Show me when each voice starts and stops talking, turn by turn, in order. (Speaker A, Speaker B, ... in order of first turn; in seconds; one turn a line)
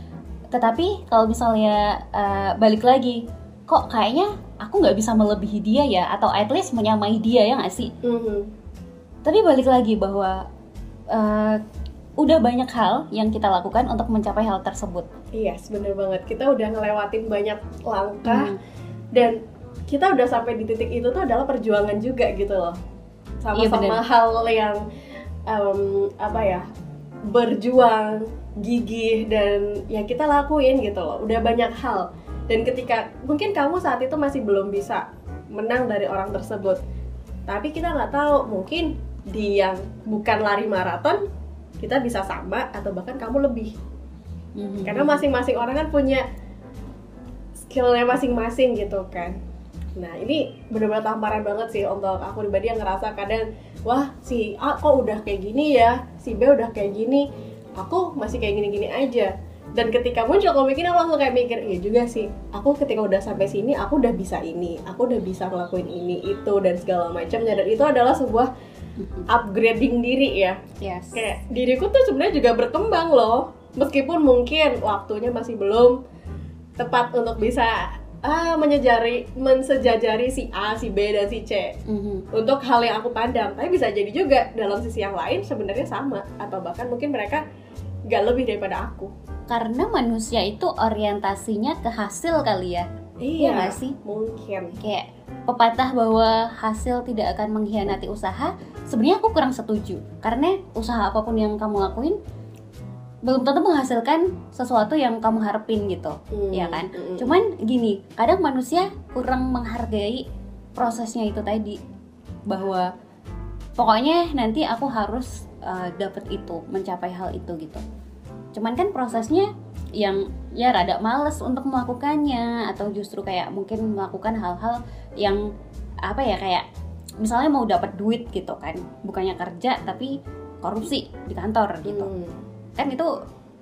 Speaker A: 0.5-7.9
Speaker B: 8.0-8.5
Speaker A: 9.2-10.4
Speaker A: 11.1-11.6
Speaker A: 12.2-15.1
Speaker B: 15.3-18.5
Speaker A: 18.2-18.6
Speaker B: 19.9-22.8
Speaker B: 23.4-24.8
Speaker A: 23.5-24.0
Speaker B: 25.5-26.7
Speaker B: 27.3-36.8
Speaker B: 37.5-41.2
Speaker B: 41.8-43.7
Speaker A: 44.5-45.2
Speaker B: 44.8-46.2
Speaker B: 47.6-49.4
Speaker B: 50.0-57.2
Speaker B: 57.8-68.5
Speaker A: 69.0-69.2
Speaker B: 69.3-70.6
Speaker A: 70.8-71.2
Speaker B: 71.1-76.0
Speaker B: 76.8-81.8
Speaker A: 81.8-82.2
Speaker B: 82.3-87.4
Speaker B: 88.1-89.1
Speaker A: 89.5-92.8
Speaker B: 93.2-94.8
Speaker A: 93.4-94.0
Speaker A: 94.7-102.2
Speaker A: 103.2-111.8
Speaker B: 106.3-107.3
Speaker A: 112.5-112.9
Speaker A: 113.8-117.8
Speaker A: 118.5-125.5
Speaker A: 126.0-126.7
Speaker A: 127.2-132.1
Speaker B: 131.8-132.3
Speaker A: 132.8-133.1